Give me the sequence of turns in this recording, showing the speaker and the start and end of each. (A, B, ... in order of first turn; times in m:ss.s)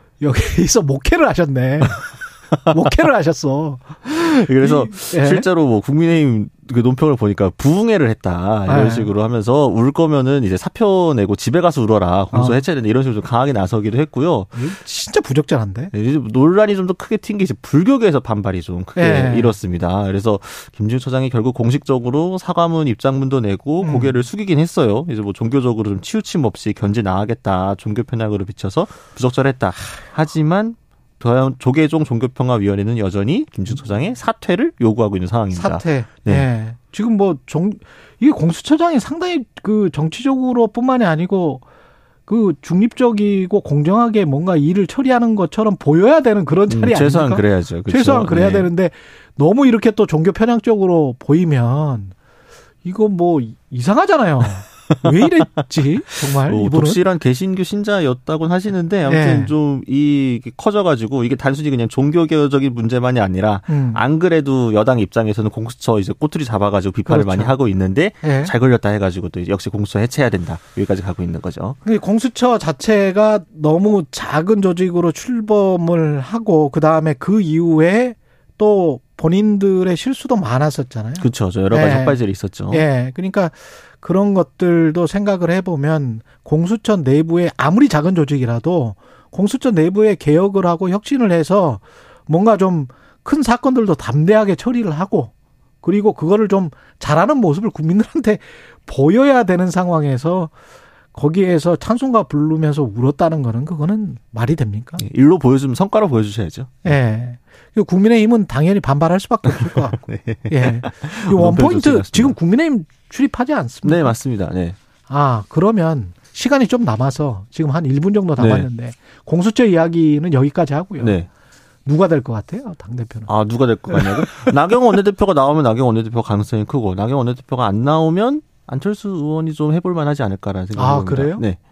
0:00.2-0:05.5 A
0:04.0-0:14.5 B
0:08.6-0:09.1 A
0:12.3-0:12.6 A
0:14.5-0:15.9 A
0:15.9-0:36.5 B
0:18.9-0:19.6 A
0:23.8-0:24.2 A
0:35.5-0:41.6 A
0:42.3-0:52.1 A
0:46.7-0:48.7 B
0:52.8-0:57.0 A
0:56.2-1:11.8 B
0:59.0-0:59.5 A
1:03.7-1:04.0 A
1:07.1-1:07.6 A
1:08.2-1:08.5 A
1:11.8-1:35.3 A
1:21.2-1:22.8 B
1:35.8-1:40.5 A
1:41.1-1:45.0 A
1:45.0-1:46.9 B
1:46.8-1:54.1 A
1:49.4-1:52.3 B
1:53.8-1:54.8 B
1:55.1-2:01.2 A
1:58.4-1:58.7 B
2:01.0-2:01.3 B
2:01.8-2:03.3 A
2:03.3-2:11.6 B
2:03.9-2:04.5 A
2:10.7-2:11.4 A